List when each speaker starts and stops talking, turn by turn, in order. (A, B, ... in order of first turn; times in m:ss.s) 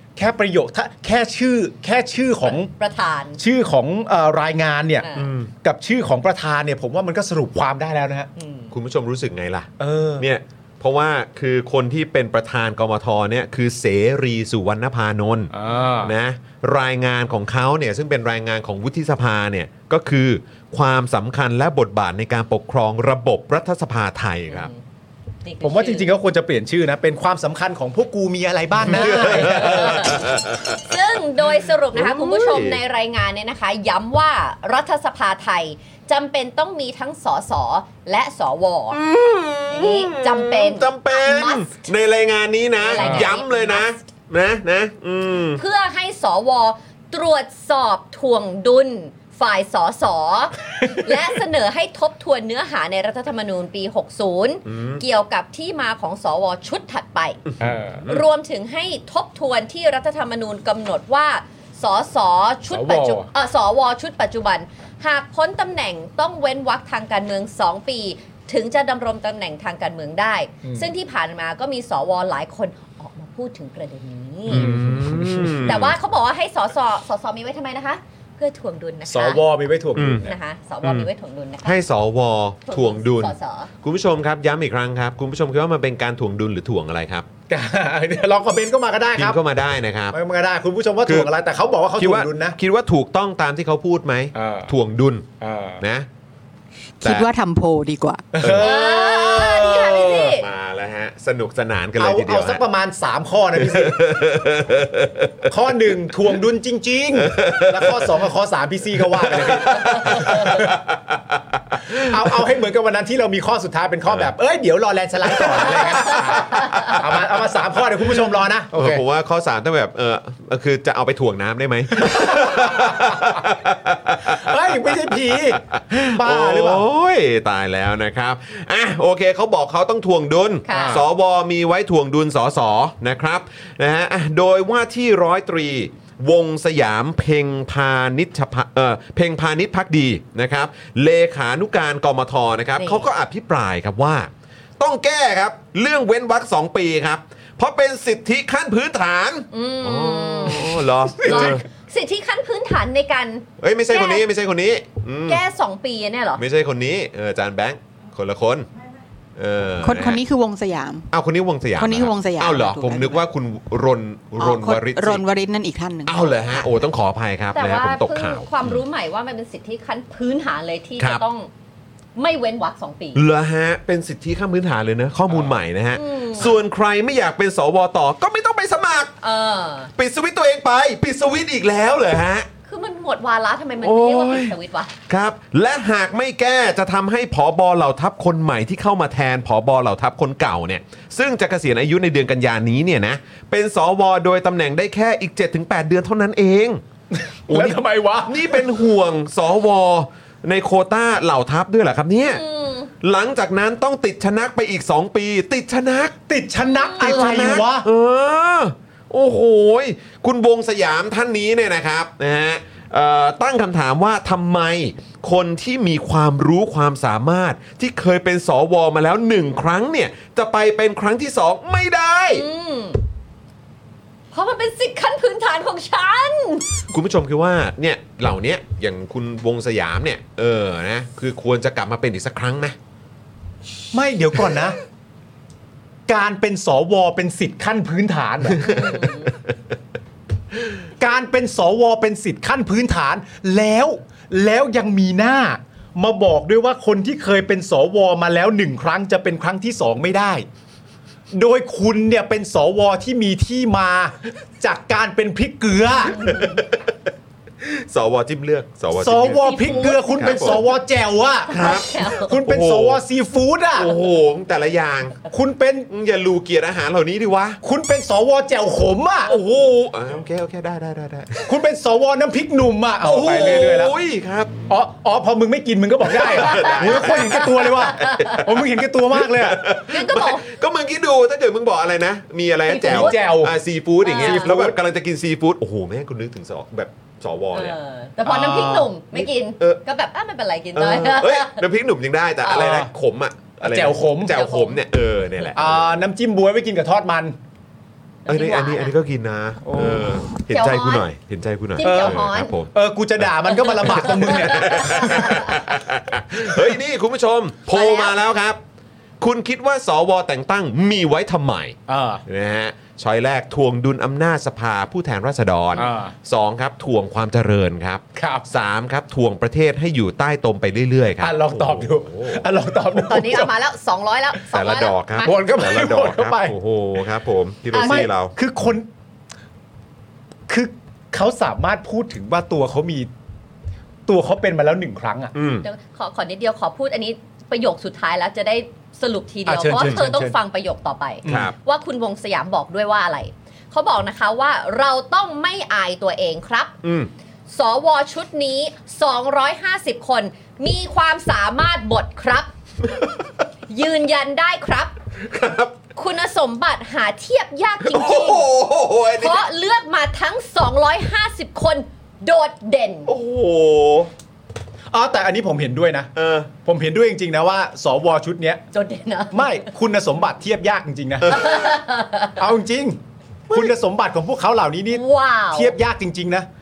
0:00.2-0:02.7 A
0:02.4-0:03.4 B
0:03.4-0:05.1 A
0:05.0-0:05.3 B
0:05.1-0:05.5 C
0:05.6-0:08.3 A
0:08.4-0:08.7 B
0:08.7-0:24.7 C
0:09.8-0:10.2 A
0:15.5-0:16.1 A
0:24.5-0:24.8 B
0:25.4-0:26.1 B
0:25.6-0:30.1 A
0:28.8-0:32.8 C
0:28.9-0:39.0 B
0:38.9-0:45.6 C
0:39.7-0:41.9 B
0:42.8-0:44.0 B
0:43.0-0:43.3 A
0:45.6-0:57.4 B
0:54.7-0:55.0 C
0:57.5-0:58.2 C
0:57.6-0:58.1 A
0:58.1-1:14.8 B
1:02.7-1:03.3 A
1:10.6-1:10.9 A
1:14.5-1:16.0 C
1:14.5-1:15.6 A
1:15.6-1:19.4 B
1:19.1-1:20.3 A
1:20.0-1:20.3 C
1:20.2-1:21.8 B
1:20.8-1:21.1 C
1:21.6-1:27.3 C
1:22.7-1:23.7 B
1:27.5-1:29.4 A
1:29.2-1:30.2 C
1:30.1-1:32.6 A
1:31.0-1:31.3 C
1:32.0-1:35.3 C
1:34.4-1:34.7 A
1:35.4-1:35.8 A
1:35.8-1:36.1 C
1:37.0-1:38.2 D
1:38.3-1:39.7 A
1:38.4-1:42.6 C
1:38.6-1:40.5 B
1:42.0-1:44.2 A
1:43.6-1:45.5 C
1:45.5-1:50.7 A
1:47.2-1:48.2 C
1:49.0-1:52.3 C
1:51.9-1:59.0 A
1:54.1-1:54.3 C
1:55.4-1:57.0 C
1:58.7-2:31.6 C
2:02.0-2:03.4 A
2:04.2-2:05.6 A
2:06.1-2:06.8 A
2:10.7-2:11.0 B
2:10.7-2:11.0 A
2:22.8-2:23.0 B
2:29.5-2:34.2 B
2:33.6-2:35.4 C
2:35.3-2:36.4 B
2:36.4-2:38.7 C
2:39.4-2:40.2 C
2:39.8-2:41.1 D
2:41.1-2:45.2 C
2:41.8-2:43.2 D
2:44.4-2:46.4 D
2:46.1-2:48.8 C
2:47.5-2:51.5 B
2:51.0-2:51.2 C
2:52.2-2:53.2 B
2:53.1-2:59.1 C
2:55.9-2:56.6 B
2:59.2-2:59.9 B
3:00.0-3:02.5 C
3:02.7-3:04.9 B
3:03.8-3:04.6 C
3:05.1-3:16.8 C
3:17.1-3:18.6 A
3:17.5-3:22.4 C
3:22.2-3:22.9 B
3:23.0-3:26.2 C
3:26.3-3:27.9 A
3:26.6-3:27.6 B
3:27.0-3:42.5 C
3:42.3-3:43.0 B
3:44.3-3:46.7 B
3:46.9-3:52.8 C
3:53.9-3:54.8 A
3:56.1-3:58.7 A
3:58.6-3:59.5 C
3:58.6-3:59.3 B
4:01.0-4:10.5 A
4:11.3-4:16.2 A
4:16.0-4:16.6 B
4:16.2-4:16.9 C
4:17.6-4:20.6 C
4:18.9-4:21.6 A
4:19.2-4:20.7 B
4:21.5-4:22.3 B
4:21.5-4:23.0 C
4:22.3-4:23.9 A
4:23.8-4:25.2 C
4:25.3-4:25.9 A
4:25.9-4:27.6 C
4:27.6-4:29.3 A
4:29.3-4:31.5 C
4:31.5-4:33.9 A
4:33.0-4:34.5 C
4:34.7-4:39.7 A
4:36.0-4:47.8 C
4:36.3-4:38.5 B
4:39.9-4:40.5 B
4:42.7-4:43.2 B
4:42.8-4:43.5 A
4:44.0-4:44.6 B
4:44.2-4:44.8 A
4:47.5-4:51.6 B
4:48.2-4:48.9 A
4:49.1-4:49.8 C
4:50.7-4:56.0 C
4:52.5-4:52.9 A
4:53.6-4:54.4 A
4:54.3-4:54.8 B
4:55.6-4:57.4 A
4:58.3-4:59.0 B
4:58.3-5:02.7 C
4:59.6-5:00.1 A
5:00.5-5:01.1 B
5:01.8-5:02.5 B
5:01.8-5:02.2 A
5:02.7-5:05.3 A
5:03.7-5:08.6 C
5:03.9-5:05.6 B
5:07.7-5:08.2 B
5:09.2-5:22.4 C
5:11.9-5:12.2 A
5:15.8-5:16.2 A
5:18.2-5:18.5 A
5:21.2-5:23.5 A
5:23.1-5:25.3 B
5:24.5-5:28.3 C
5:25.2-5:26.6 A
5:27.7-5:28.1 B
5:27.8-5:28.9 A
5:30.5-5:33.1 A
5:34.1-5:35.3 A
5:35.3-5:35.7 C
5:35.6-5:46.8 B
5:39.5-5:40.4 A
5:39.8-5:40.0 C
5:41.2-5:41.5 A
5:41.3-5:41.5 C
5:46.8-5:47.1 C
5:47.5-5:52.5 B
5:53.7-5:54.9 B
5:55.2-5:55.8 C
5:56.0-5:58.4 B
5:57.8-5:59.4 C
5:59.2-6:03.1 B
6:03.1-6:04.1 C
6:04.9-6:06.1 A
6:06.2-6:06.5 C
6:06.6-6:08.6 A
6:08.7-6:09.6 B
6:09.3-6:11.4 A
6:11.3-6:11.5 C
6:11.3-6:12.4 B
6:12.4-6:13.0 A
6:13.5-6:15.0 A
6:14.9-6:15.8 B
6:15.5-6:16.5 A